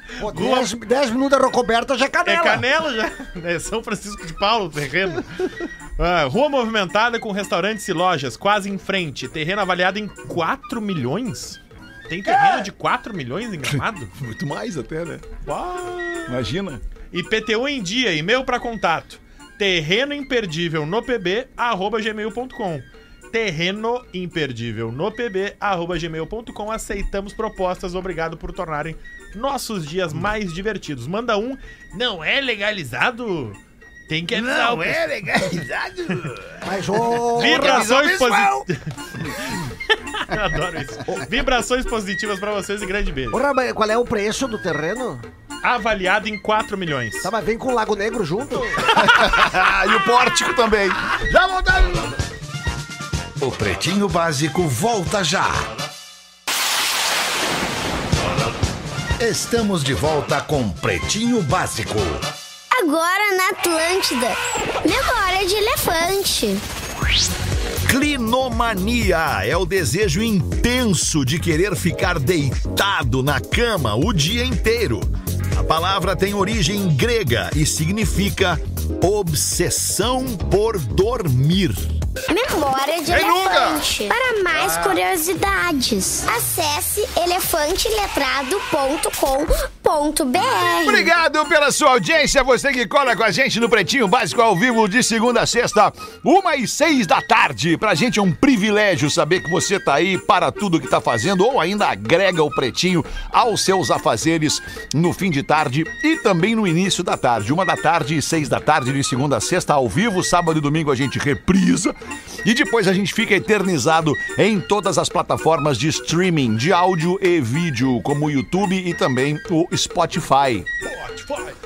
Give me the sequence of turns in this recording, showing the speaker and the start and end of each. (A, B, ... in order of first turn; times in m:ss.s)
0:00.1-0:00.7 A
0:00.2-0:02.6 B
0:02.2-0:14.1 A
0:13.6-0:15.2 C
0:15.4-0:16.4 A
0:16.3-0:16.8 C
0:17.1-0:35.5 A
0:34.3-0:38.7 C
0:36.6-0:37.9 B
0:37.4-0:43.4 A
0:43.3-0:45.2 B
0:45.6-0:47.3 A
0:47.2-0:48.9 B
0:48.9-0:52.1 C
0:53.4-0:55.7 D
0:59.2-1:02.3 D
1:02.7-1:06.6 E
1:07.8-1:21.9 C
1:22.3-1:31.1 E
1:23.0-1:23.8 C
1:24.5-1:25.0 C
1:30.8-2:00.7 C
2:00.8-2:01.5 A